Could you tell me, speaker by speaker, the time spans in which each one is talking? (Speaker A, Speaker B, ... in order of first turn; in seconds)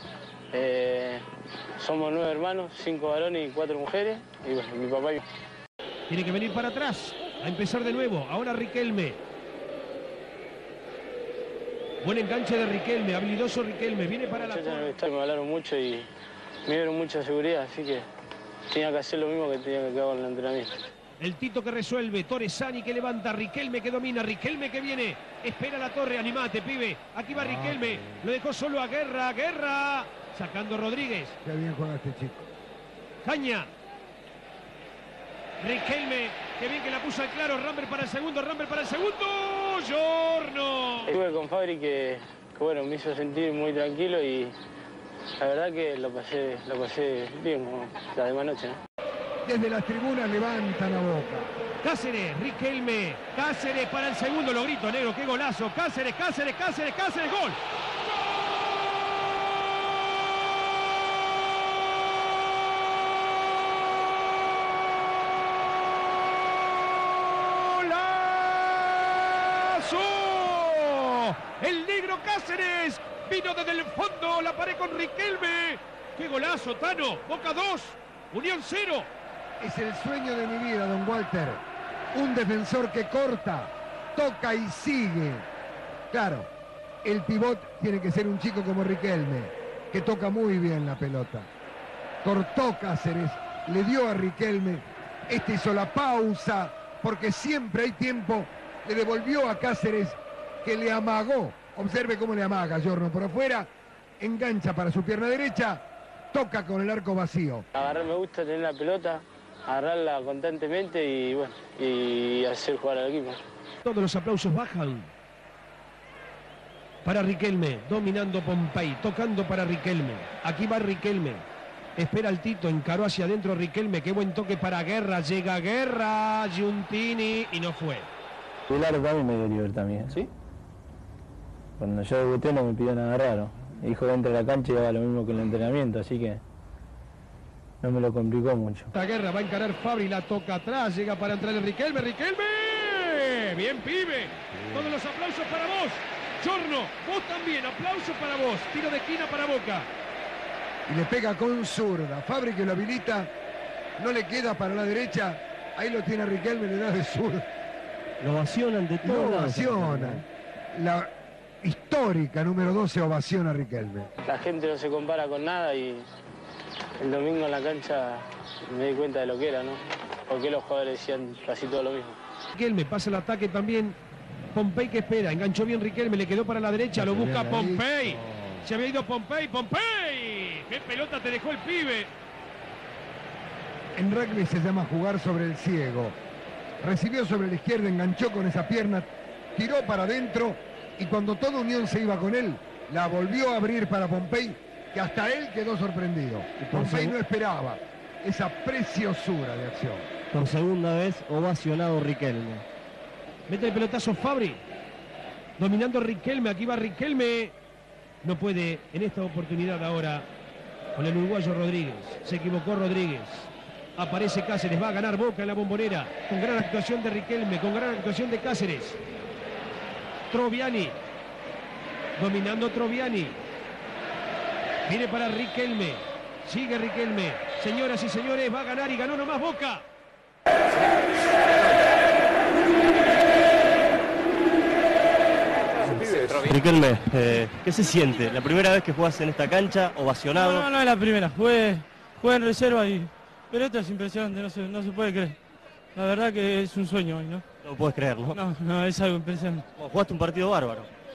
Speaker A: 0.5-1.2, 1.8-5.2, 14.3-16.1, 16.6-18.0, 18.7-20.7, 41.1-44.5, 45.4-48.8, 107.7-113.4, 164.3-166.1, 167.0-172.2
Speaker B: 6.1-9.2, 12.0-14.9, 21.2-31.4, 33.2-33.7, 35.6-41.2, 51.8-57.6, 67.3-79.1, 113.8-115.1, 117.0-121.4, 122.0-128.1, 138.9-149.9, 172.5-174.0, 174.5-182.1, 203.5-204.6, 205.6-207.5, 208.2-210.3, 210.9-219.0, 220.3-221.0, 222.2-223.4, 224.9-229.8
Speaker C: 27.4-28.2, 31.4-32.5, 49.4-51.5, 79.6-81.6, 82.1-85.5, 86.1-86.5, 87.0-91.5, 92.2-103.7, 104.2-107.7, 144.6-144.9, 150.9-153.3, 154.0-157.4, 159.0-161.1, 161.6-164.1, 177.2-177.9, 183.9-186.2, 186.8-200.1
Speaker D: 128.7-130.3, 131.8-136.4, 137.8-138.9
Speaker E: 158.2-160.2, 176.9-177.4, 178.0-178.6, 196.6-197.1, 200.3-202.6, 235.9-240.7, 247.6-248.4, 249.8-250.9
Speaker F: 240.3-245.4, 245.9-247.4, 248.3-249.6